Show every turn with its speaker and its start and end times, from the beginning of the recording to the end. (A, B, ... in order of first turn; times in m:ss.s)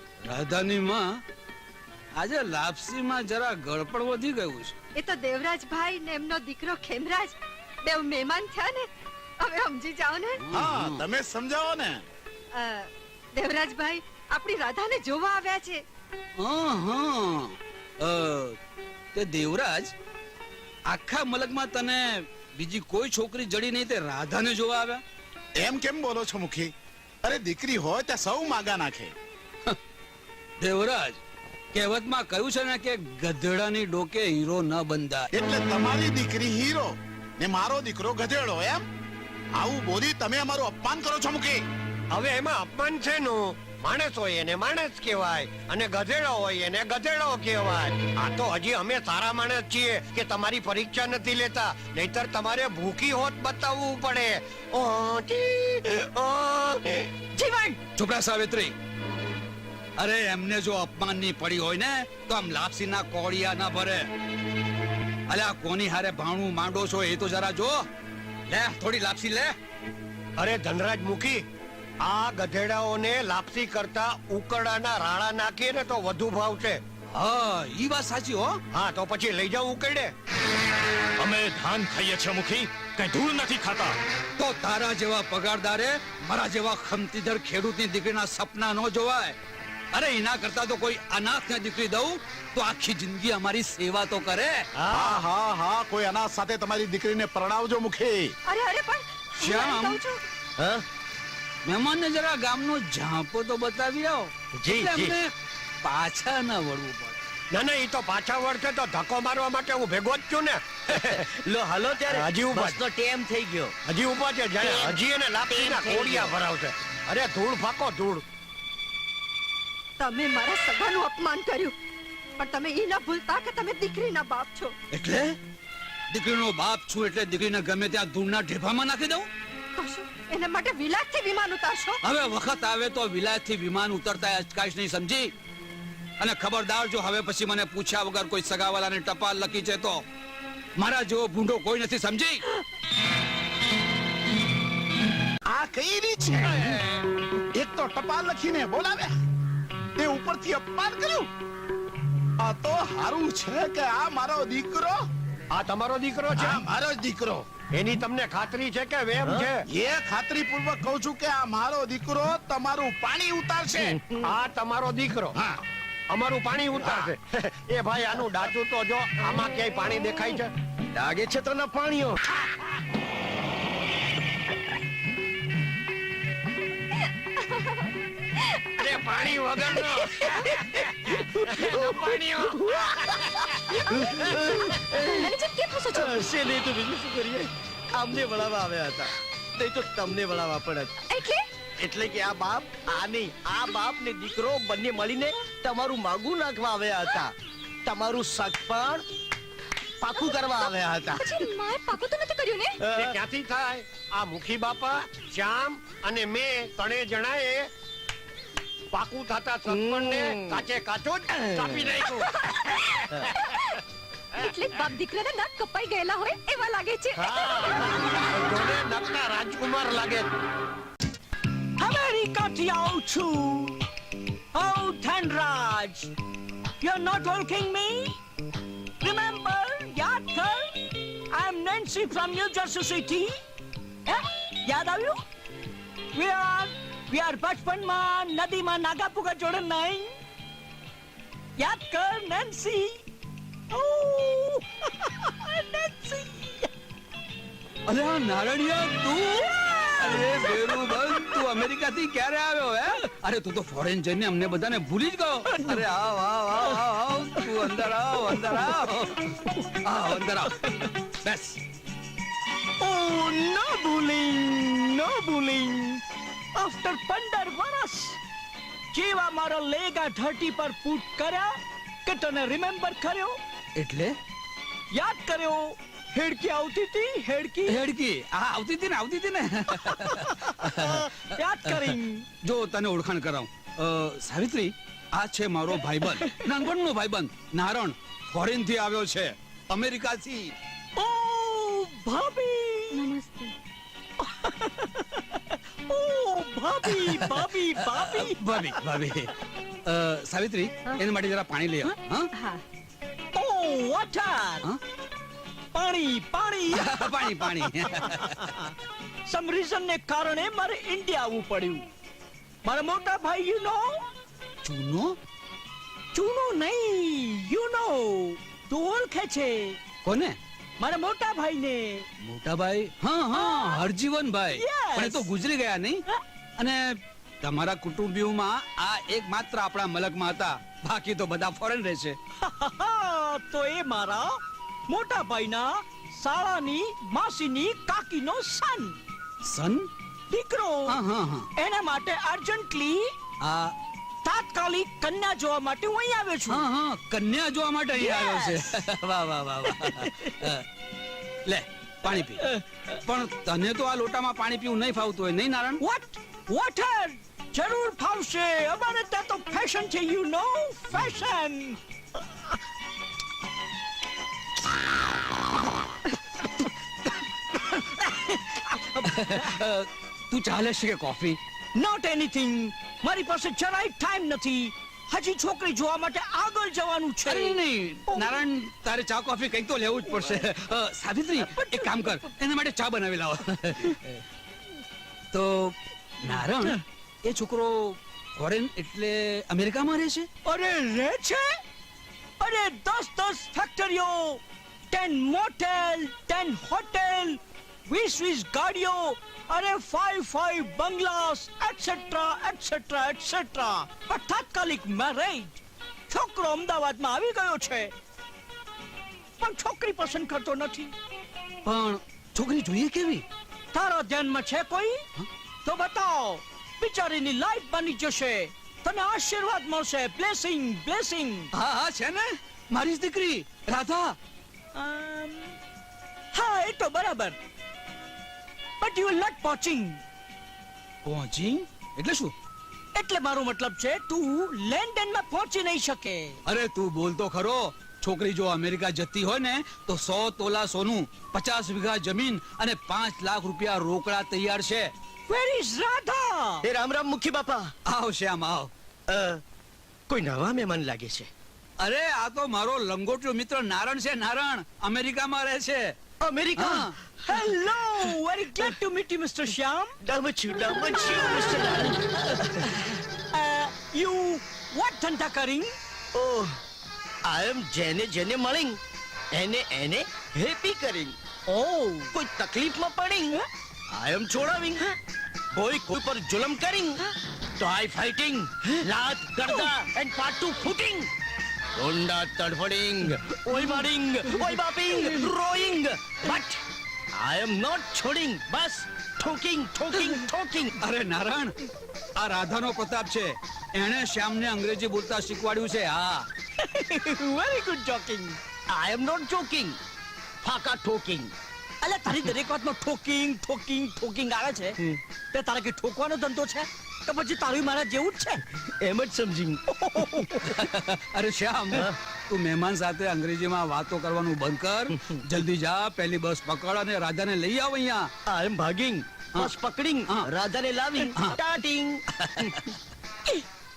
0:00.2-0:01.2 A
0:02.2-0:04.7 A
0:04.9-0:08.9 B
0:09.4-0:10.4 B
0:10.4-0:11.0 A
0:10.5-0:12.0 C
0:12.5-0:15.8 B
0:16.4-0:18.6 A
0:19.1-0:19.9 A
0:20.9-0:25.0 A
0:25.6-0:26.7 C
0:27.2-0:29.1 C
0:30.6-0:31.2 A
0:31.7-0:35.3 A
0:35.3-0:38.8 C
0:39.6-0:41.6 C
0:42.1-0:57.1 D
0:58.0-0:58.7 A
1:00.0-1:04.1 A
1:05.3-1:07.9 A
1:08.5-1:09.6 A
1:10.4-1:11.4 D
1:12.0-1:16.8 D
1:17.1-1:18.6 A
1:18.7-1:20.1 D
1:21.2-1:23.9 E
1:24.4-1:29.4 A
1:29.9-1:34.7 A
1:34.9-1:38.3 C
1:38.5-1:40.2 B
1:39.4-1:40.0 A
1:40.6-1:40.8 F
1:41.6-1:47.2 A
1:44.6-1:45.1 F
1:47.5-1:51.2 D
1:50.9-1:53.8 F
1:52.1-1:52.8 D
1:53.8-1:58.2 D
1:54.6-1:54.9 F
1:55.5-1:56.3 F
2:00.0-2:01.7 B
2:02.4-2:04.7 B
2:04.9-2:05.4 A
2:06.1-2:09.3 A
2:09.8-2:12.0 B
2:12.0-2:15.3 A
2:16.2-2:20.0 A
2:20.8-2:22.4 A
2:25.5-2:26.8 C
2:27.5-2:29.1 C
2:30.0-2:31.3 C
2:32.4-2:35.0 C
2:35.5-2:36.6 D
2:36.3-2:37.4 C
2:37.7-2:39.6 D
2:39.7-2:44.0 C
2:43.7-2:44.2 F
2:44.2-2:45.4 D
2:46.1-2:50.5 D
2:50.9-2:52.2 F
2:57.4-2:57.7 B
2:58.8-3:03.8 D
3:00.0-3:00.7 F
3:01.4-3:05.3 F
3:03.9-3:06.2 B
3:05.9-3:10.9 F
3:11.1-3:11.4 B
3:11.8-3:17.3 F
3:17.8-3:19.0 F
3:20.0-3:21.5 F
3:21.1-3:22.8 B
3:22.8-3:23.2 F
3:22.9-3:27.7 D
3:28.9-3:33.2 D
3:29.6-3:30.6 F
3:31.4-3:31.8 F
3:34.3-3:37.8 B
3:37.2-3:40.2 D
3:41.8-3:43.8 G
3:44.5-3:46.1 G
3:46.8-3:48.2 G
3:49.0-3:50.7 G
3:51.3-3:53.3 G
3:54.1-3:55.2 G
3:56.1-4:00.1 G
4:01.6-4:03.0 G
4:03.7-4:06.7 G
4:07.9-4:21.6 A
4:22.8-4:26.0 G
4:26.5-4:28.2 G
4:28.9-4:31.5 G
4:32.0-4:33.4 G
4:33.8-4:34.2 A
4:34.9-4:37.8 G
4:37.7-4:41.0 A
4:39.9-4:42.2 G
4:41.6-4:50.5 A
4:51.0-4:53.0 G
4:52.9-4:53.5 B
4:54.2-4:58.4 G
4:56.8-4:59.3 A
4:59.8-5:02.3 A
5:02.3-5:02.6 B
5:03.3-5:04.7 G
5:05.7-5:07.7 G
5:06.7-5:08.7 A
5:09.2-5:11.9 G
5:12.6-5:14.1 G
5:14.6-5:15.2 A
5:16.1-5:19.8 G
5:20.0-5:20.4 A
5:20.8-5:22.0 G
5:22.2-5:26.0 A
5:23.3-5:23.8 G
5:24.5-5:25.3 G
5:26.6-5:32.2 A
5:32.4-5:39.0 G
5:39.4-5:39.9 A
5:40.3-5:41.0 G
5:40.9-5:41.5 A
5:41.6-5:43.1 G
5:43.4-5:43.7 A
5:44.2-5:46.6 G
5:46.5-5:50.6 A
5:48.0-5:48.7 G
5:49.8-5:50.1 G
5:51.4-5:55.8 A
5:55.8-6:01.8 G
6:07.6-6:11.4 A
6:11.7-6:17.6 G
6:17.2-6:24.2 A
6:18.1-6:18.4 G
6:21.4-6:22.2 G
6:25.3-6:30.3 A
6:30.4-6:31.5 G
6:32.4-6:47.9 G
6:49.4-6:50.9 G
6:51.6-6:53.2 A
6:53.7-6:55.0 G
6:55.6-7:01.5 G
7:01.5-7:04.2 A
7:04.7-7:05.6 G
7:06.3-7:07.4 G
7:08.8-7:10.0 G
7:11.0-7:12.3 A
7:12.9-7:16.4 G
7:16.5-7:24.9 A
7:25.3-7:26.6 G
7:26.6-7:27.7 F
7:27.8-7:28.7 A
7:29.1-7:29.4 F
7:30.1-7:31.3 F
7:31.8-7:36.0 A
7:36.2-7:36.9 F
7:36.6-7:37.5 A
7:37.3-7:40.0 G
7:40.0-7:42.7 F
7:42.8-7:45.7 G
7:46.1-7:46.6 F
7:47.2-7:48.8 F
7:49.3-7:51.2 F
7:51.5-7:52.1 G
7:52.1-7:54.9 F
7:55.5-7:57.0 F
7:57.6-8:01.1 F
8:01.8-8:06.6 F
8:07.1-8:10.7 F
8:10.8-8:11.5 A
8:12.2-8:16.3 A
8:16.6-8:18.4 G
8:18.7-8:19.8 F
8:20.4-8:21.3 F
8:21.8-8:24.8 G
8:25.3-8:28.4 G
8:28.7-8:30.3 F
8:29.9-8:30.3 G
8:30.4-8:38.1 A
8:34.9-8:35.2 F
8:38.2-8:42.6 F
8:42.2-8:42.6 A